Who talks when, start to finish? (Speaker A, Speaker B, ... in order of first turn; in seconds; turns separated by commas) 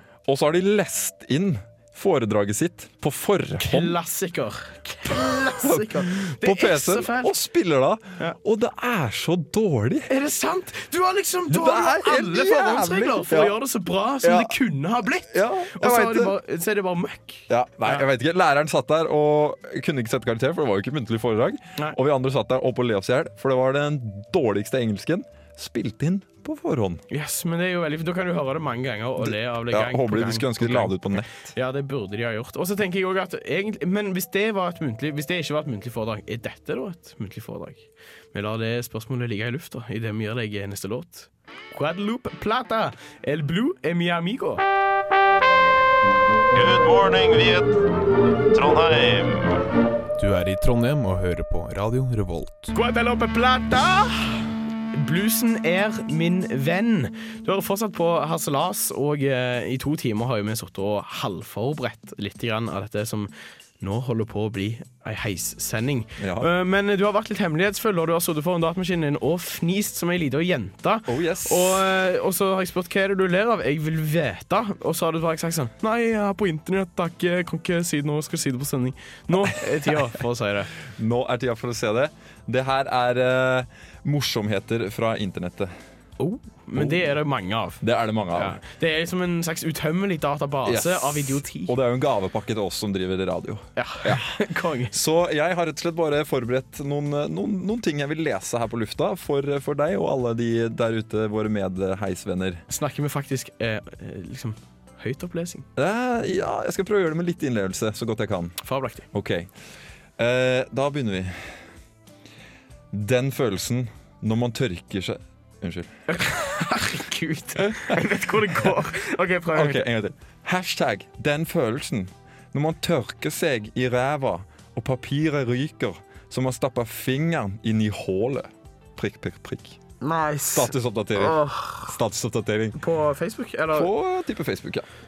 Speaker A: 0.3-4.0, Speaker B: 3.6-7.3, Speaker A: 5.1-10.1, Speaker B: 10.1-18.1, Speaker A: 11.5-13.6, Speaker A: 14.2-14.6, Speaker A: 15.3-16.4, Speaker A: 17.5-27.0, Speaker B: 27.1-44.6, Speaker A: 29.2-31.5, Speaker C: 46.5-47.8, Speaker C: 48.5-49.5, Speaker D: 50.2-52.7, Speaker B: 52.7-80.7, Speaker A: 66.2-66.5, Speaker A: 71.1-71.9, Speaker A: 80.9-85.7, Speaker B: 86.2-87.8, Speaker A: 86.7-87.1, Speaker A: 87.8-88.6, Speaker B: 88.3-91.8, Speaker A: 90.7-102.6, Speaker B: 93.8-95.0, Speaker B: 102.7-105.7, Speaker A: 105.8-108.6, Speaker B: 108.6-109.1, Speaker A: 109.1-109.5, Speaker A: 110.2-111.6, Speaker A: 112.9-115.9, Speaker B: 116.1-119.8, Speaker A: 117.7-118.0, Speaker A: 119.5-129.8, Speaker B: 130.0-131.9, Speaker A: 130.5-132.8, Speaker B: 132.8-133.9, Speaker A: 133.7-134.9